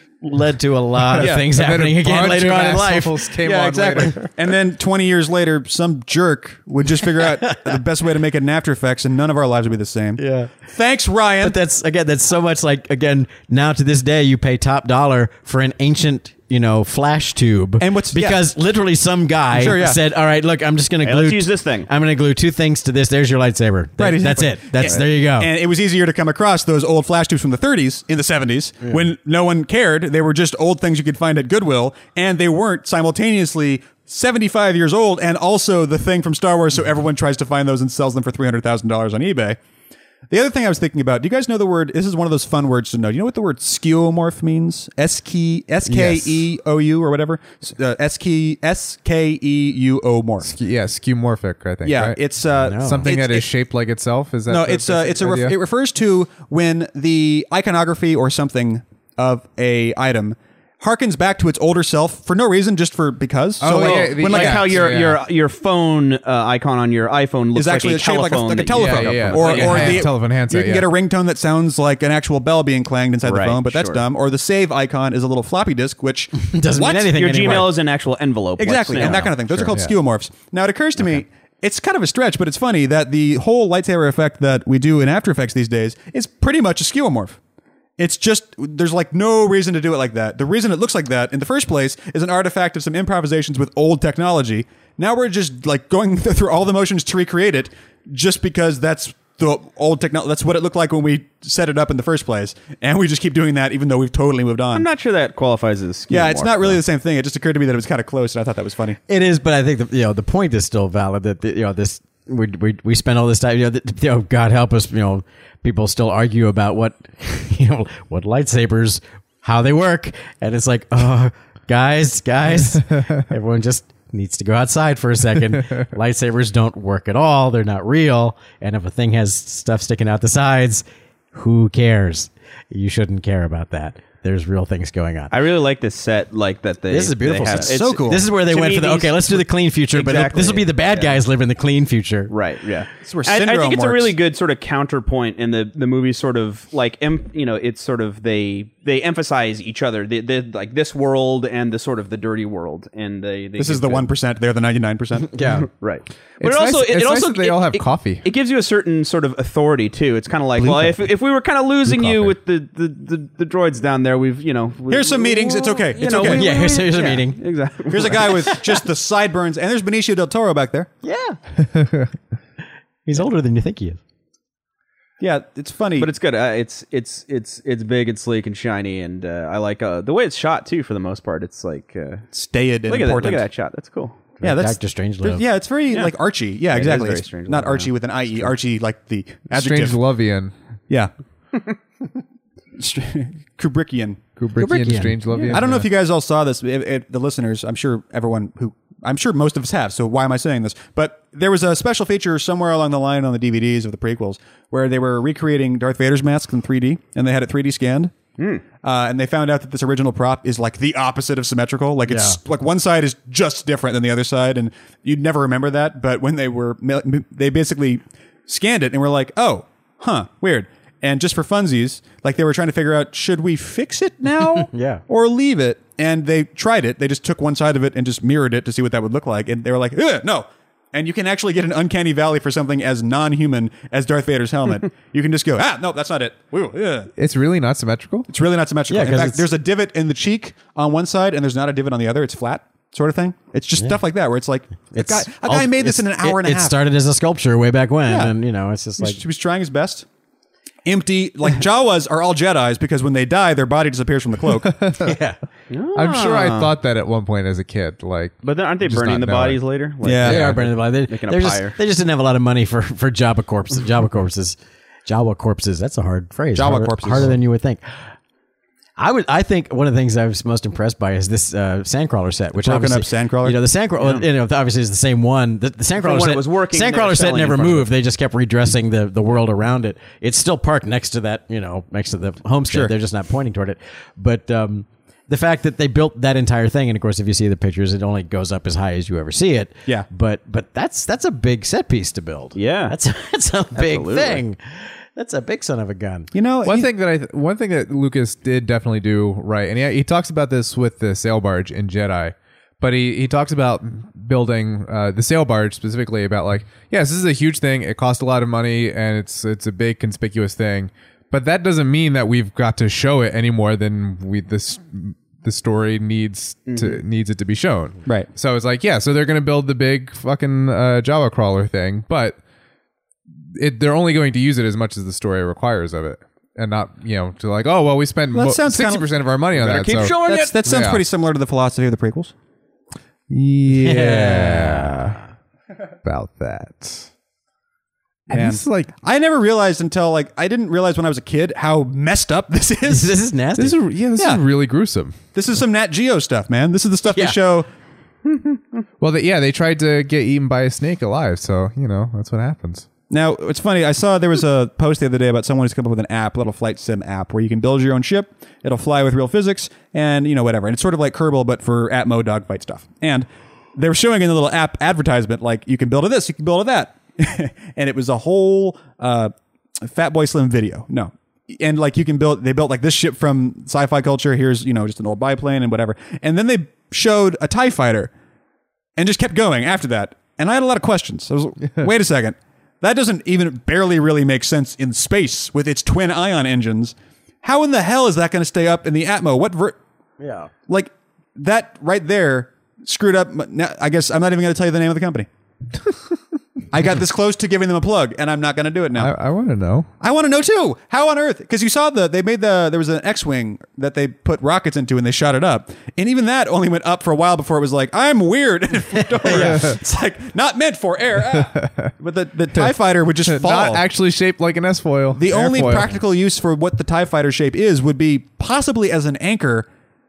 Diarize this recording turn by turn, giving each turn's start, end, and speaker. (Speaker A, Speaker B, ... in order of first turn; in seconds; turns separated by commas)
Speaker A: 0.2-3.3, Speaker B: 1.1-4.2, Speaker C: 1.2-1.5, Speaker C: 3.4-11.6, Speaker A: 10.2-10.5, Speaker A: 11.4-25.5, Speaker C: 17.8-18.4, Speaker C: 19.5-20.0, Speaker D: 21.0-21.9, Speaker C: 24.0-39.6, Speaker C: 40.3-50.5, Speaker A: 45.8-46.4, Speaker B: 50.4-52.2, Speaker C: 51.8-53.5, Speaker A: 52.6-53.1, Speaker B: 52.8-55.5, Speaker C: 54.5-65.0, Speaker B: 63.6-65.2, Speaker D: 63.6-70.1, Speaker C: 67.5-77.7, Speaker B: 68.7-70.9, Speaker D: 73.2-74.0, Speaker A: 76.3-77.8, Speaker D: 77.1-79.6, Speaker C: 78.6-87.4, Speaker B: 79.0-79.9, Speaker C: 88.0-104.8, Speaker D: 104.7-106.8, Speaker C: 106.1-109.0, Speaker A: 109.1-135.3, Speaker D: 135.3-141.2, Speaker A: 136.9-142.3, Speaker C: 137.5-138.3, Speaker D: 142.3-154.1, Speaker C: 143.0-144.2, Speaker C: 153.6-155.3, Speaker A: 155.3-155.7, Speaker D: 155.4-168.5, Speaker B: 156.4-158.2, Speaker B: 161.9-162.2, Speaker C: 164.9-166.5, Speaker A: 166.1-167.4, Speaker C: 167.9-170.9, Speaker A: 171.0-171.4, Speaker B: 171.7-172.1, Speaker A: 173.1-174.0, Speaker C: 175.2-176.1, Speaker D: 176.0-182.2, Speaker C: 182.3-183.4, Speaker D: 182.9-184.2, Speaker A: 184.4-185.4, Speaker C: 184.4-190.0, Speaker D: 186.7-187.9, Speaker B: 189.5-190.5, Speaker C: 192.8-194.2, Speaker B: 194.4-195.9, Speaker A: 194.6-195.5, Speaker C: 195.5-208.1, Speaker D: 208.4-208.6, Speaker C: 208.8-237.1, Speaker A: 212.1-212.4, Speaker A: 224.7-225.0, Speaker B: 237.2-238.3, Speaker C: 238.3-246.8, Speaker A: 238.9-239.5, Speaker A: 244.9-249.2, Speaker C: 248.1-248.3, Speaker C: 249.0-250.1, Speaker C: 250.8-254.7, Speaker B: 254.7-255.1, Speaker A: 255.0-255.4, Speaker D: 255.7-256.8, Speaker B: 255.9-259.6, Speaker D: 258.4-261.8, Speaker C: 260.0-260.5, Speaker A: 260.2-267.8, Speaker B: 260.2-260.6, Speaker C: 266.5-267.4, Speaker A: 269.0-296.3, Speaker C: 272.6-273.6, Speaker D: 274.0-274.2, Speaker D: 276.0-277.9, Speaker D: 292.6-292.9, Speaker D: 293.8-294.4, Speaker C: 296.3-296.9, Speaker B: 296.6-322.4, Speaker D: 316.7-317.0, Speaker B: 323.5-331.0, Speaker C: 328.3-329.1, Speaker D: 329.6-330.6, Speaker C: 330.1-332.3, Speaker B: 333.3-335.2, Speaker A: 333.7-335.1, Speaker B: 336.0-337.1, Speaker B: 338.3-338.9, Speaker C: 338.3-343.1, Speaker A: 342.9-343.8, Speaker B: 343.6-345.2, Speaker C: 344.1-344.4, Speaker C: 345.3-347.7, Speaker A: 347.1-347.4, Speaker B: 349.0-352.9, Speaker C: 353.1-378.1, Speaker C: 379.0-389.8, Speaker A: 390.2-390.5, Speaker C: 390.7-395.3, Speaker C: 396.7-399.1, Speaker B: 398.9-399.9, Speaker C: 400.0-413.8, Speaker B: 409.2-409.8, Speaker B: 411.6-411.9, Speaker B: 413.2-415.9, Speaker C: 415.1-419.7